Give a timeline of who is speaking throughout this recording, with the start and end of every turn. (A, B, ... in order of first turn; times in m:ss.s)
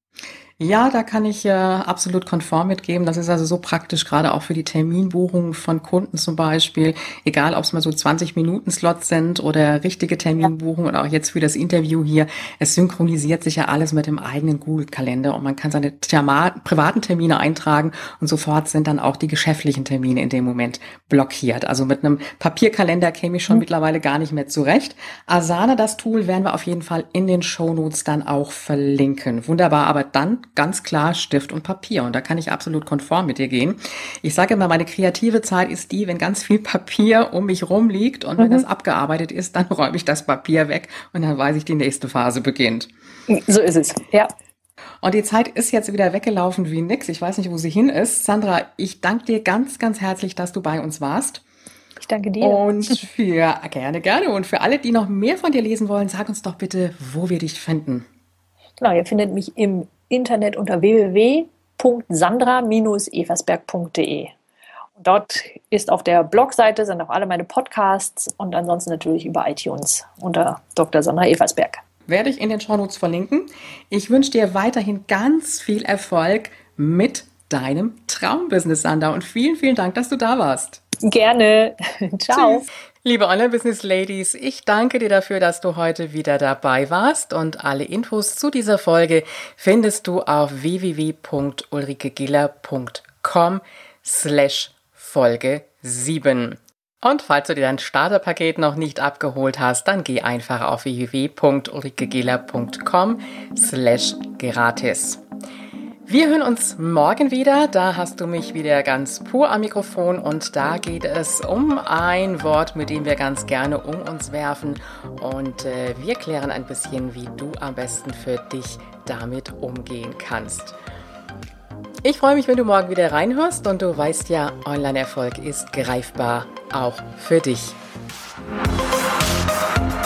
0:00.6-0:42.9 A
0:38.4-0:38.6 B
0:43.3-0:44.3 B
0:45.0-0:51.4 A
0:52.0-0:53.0 B
0:52.4-0:58.1 A
0:58.8-1:04.3 B
1:05.0-1:11.8 B
1:12.1-1:20.8 A
1:21.0-1:22.6 B
1:22.3-1:45.2 A
1:46.1-2:00.8 A
2:02.0-2:07.8 A